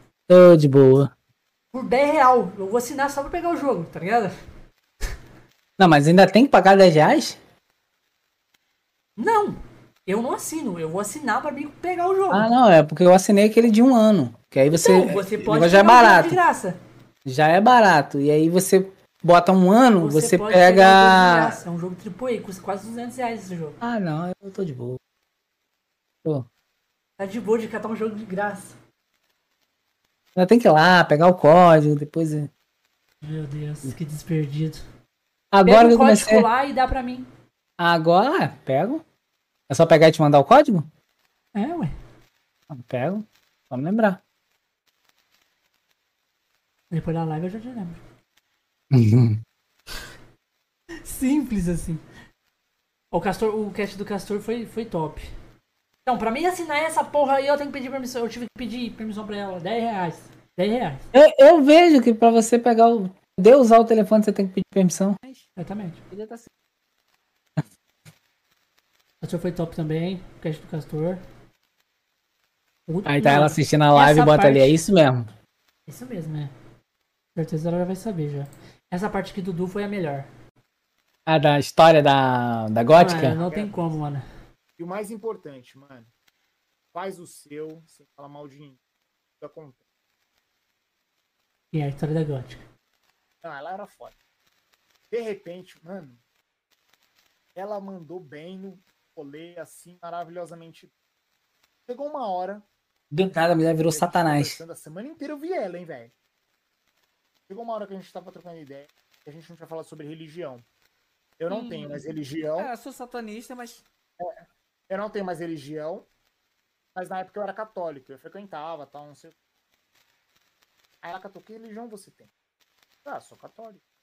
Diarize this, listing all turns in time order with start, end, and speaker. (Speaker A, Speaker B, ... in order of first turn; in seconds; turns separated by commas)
Speaker A: 0.3-1.1, Speaker B: 1.7-4.3, Speaker A: 5.8-7.4, Speaker B: 9.2-12.5, Speaker A: 12.3-16.4, Speaker B: 14.7-16.8, Speaker A: 17.2-21.6, Speaker B: 20.0-23.8, Speaker A: 23.8-25.0, Speaker B: 27.2-28.8, Speaker A: 30.4-32.5, Speaker B: 33.2-34.8, Speaker A: 35.5-36.5, Speaker B: 35.6-37.3, Speaker A: 37.8-39.0, Speaker A: 39.7-40.9, Speaker B: 41.5-41.9, Speaker A: 42.7-44.2, Speaker B: 46.9-48.0, Speaker A: 48.9-49.4, Speaker B: 51.0-52.0, Speaker B: 53.1-55.3, Speaker B: 56.1-61.0, Speaker A: 61.1-65.2, Speaker C: 65.2-65.5, Speaker B: 65.6-66.0, Speaker C: 66.1-66.5, Speaker B: 69.2-71.2, Speaker B: 72.9-74.8, Speaker A: 73.1-75.3, Speaker B: 75.9-76.5, Speaker B: 77.4-80.3, Speaker A: 81.3-83.4, Speaker B: 83.0-84.2, Speaker D: 83.3-84.0, Speaker D: 84.8-86.1, Speaker D: 86.9-88.8, Speaker D: 89.4-89.8, Speaker B: 91.7-92.6, Speaker D: 93.4-94.1, Speaker D: 95.1-96.2, Speaker D: 97.6-100.9, Speaker D: 101.9-102.6, Speaker A: 103.1-104.6, Speaker D: 103.8-106.1, Speaker D: 107.5-110.6, Speaker D: 111.4-112.7, Speaker C: 112.5-113.8, Speaker D: 114.9-116.1, Speaker D: 117.0-119.3, Speaker D: 121.0-122.3, Speaker D: 123.0-123.8